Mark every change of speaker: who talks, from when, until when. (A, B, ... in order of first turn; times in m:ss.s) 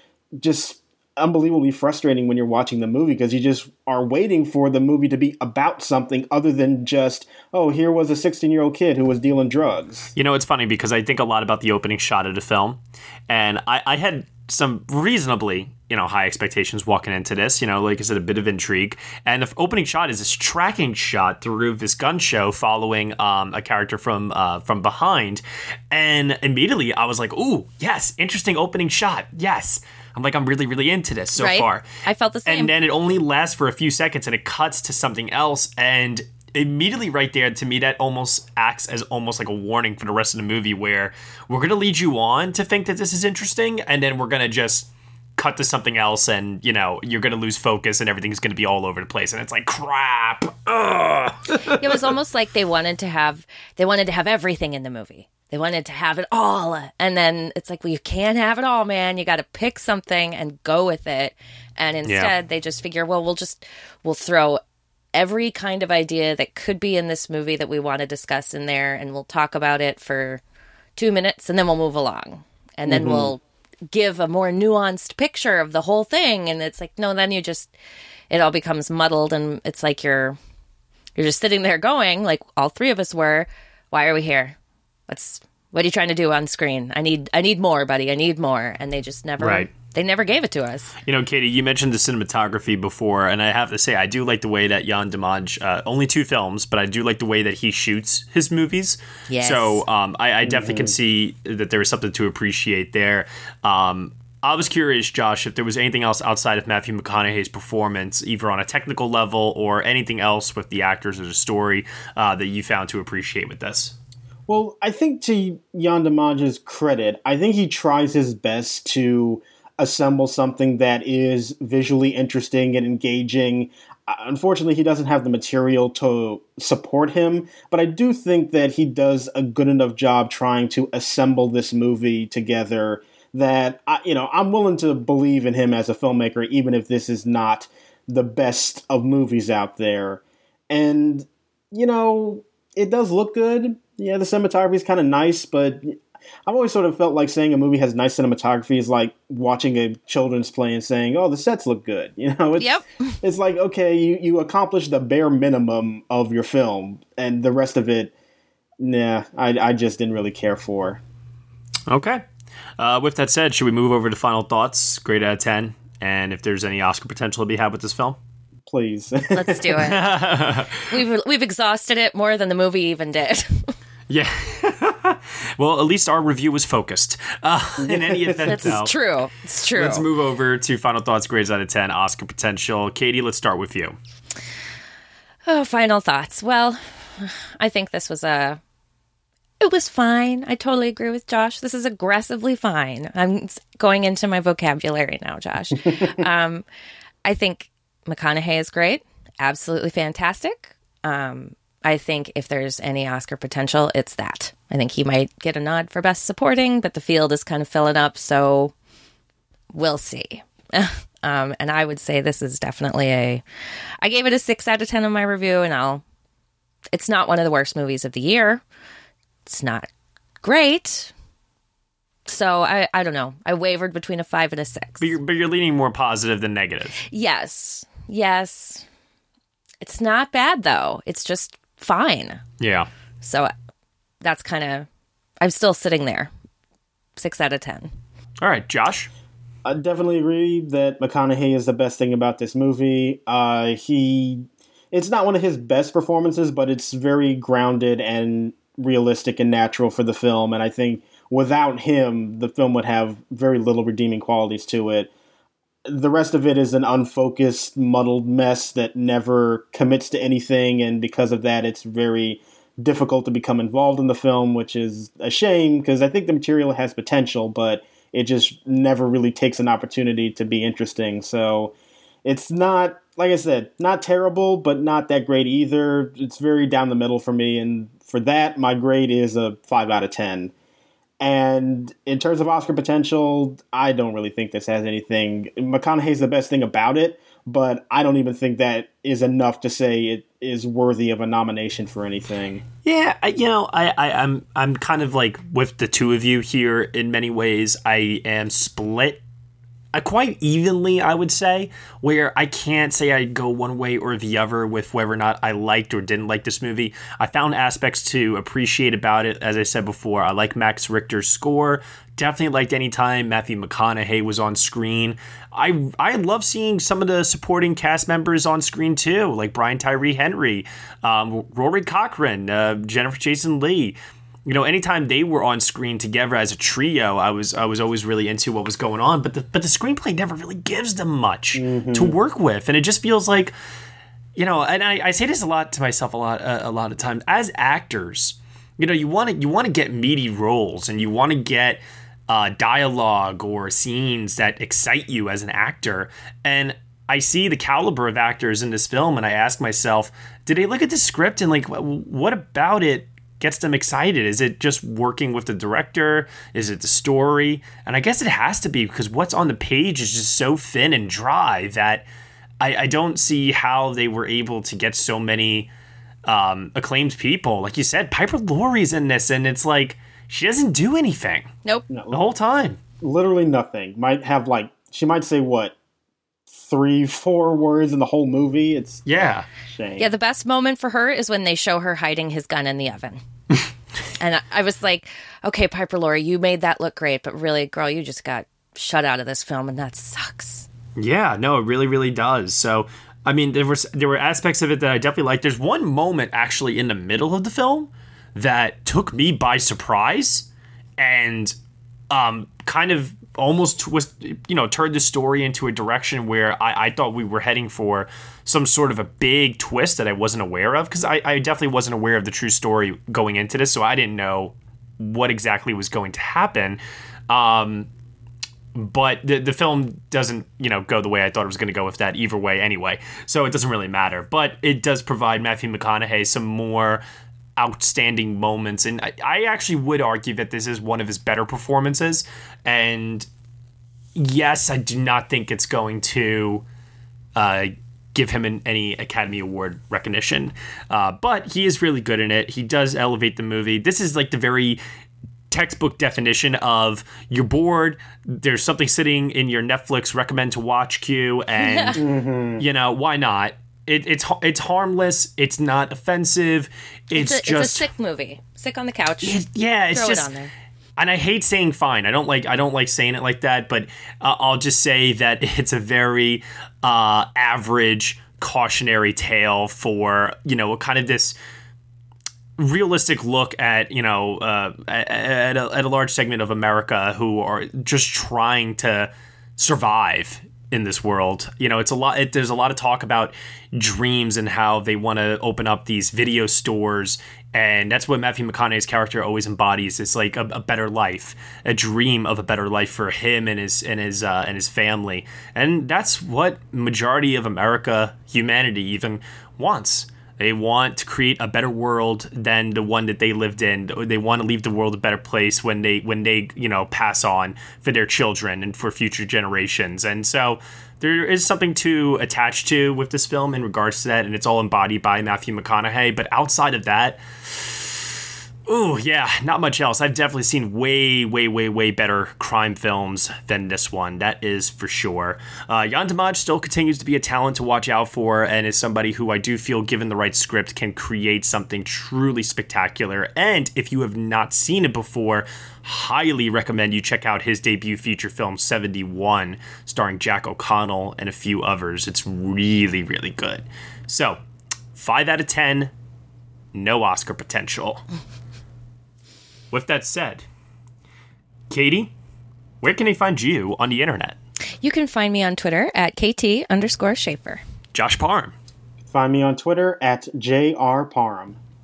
0:00.4-0:10.1 A
0:10.2-0:31.9 B
0:31.4-0:32.7 C
0:32.4-0:51.7 B
0:51.7-1:04.6 C
1:02.0-1:02.3 B
1:05.1-1:10.4 C
1:11.0-1:17.7 C
1:12.8-1:13.3 A
1:18.3-1:20.4 C
1:21.2-1:24.6 C
1:25.1-1:30.9 C
1:29.4-1:29.7 B
1:31.0-1:53.9 B
1:39.3-1:39.8 C
1:40.4-1:40.9 A
1:54.5-2:38.1 A
2:32.6-2:33.1 C
2:38.8-2:41.0 A
2:41.9-2:42.2 B
2:42.8-2:48.2 B
2:48.7-2:49.8 A
2:49.3-2:53.7 C
2:49.8-2:50.9 B
2:54.1-2:58.9 B
2:57.8-2:58.8 A
2:58.5-3:00.0 C
2:59.7-3:04.0 B
3:05.4-3:08.6 C
3:09.6-3:16.6 C
3:17.2-3:28.7 C
3:29.7-3:33.4 C
3:34.0-3:36.0 C
3:36.9-3:38.6 C
3:39.4-3:39.9 C
3:40.4-3:41.1 C
3:42.2-3:45.1 C
3:45.0-3:47.0 B
3:47.1-3:48.8 C
3:49.8-3:52.4 C
3:52.6-3:52.9 B
3:53.2-3:53.5 C
3:54.2-3:54.9 C
3:55.4-3:56.3 C
3:57.2-3:57.9 C
3:58.4-3:59.1 B
3:59.6-4:15.1 A
4:15.8-4:40.5 A
4:41.2-4:52.6 A
4:52.8-4:59.2 B
4:59.9-5:33.5 B
5:31.6-5:32.1 A
5:34.4-6:02.0 B
6:02.6-6:05.7 B
6:06.2-6:11.5 B
6:11.9-6:12.2 A
6:12.1-6:12.8 B
6:13.0-6:15.7 A
6:16.5-6:19.0 A
6:19.0-6:19.5 B
6:19.7-6:20.1 A
6:20.0-6:23.2 C
6:24.2-6:30.7 C
6:31.0-6:41.6 B
6:42.1-6:57.9 B
6:58.7-7:07.0 B
7:07.6-7:13.3 B
7:14.2-7:16.6 B
7:17.4-7:24.8 B
7:25.5-7:32.0 B
7:31.6-7:32.0 C
7:32.0-7:32.6 A
7:32.6-7:37.9 B
7:37.1-7:40.5 C
7:39.2-7:40.3 B
7:41.0-7:51.3 B
7:52.6-8:38.0 B
8:38.7-9:04.4 B
9:04.9-9:05.9 B
9:06.7-9:08.0 B
9:09.7-9:10.4 B
9:11.7-9:12.1 B
9:12.8-9:14.4 B
9:14.8-9:17.6 C
9:17.9-9:18.5 B
9:19.1-9:21.6 A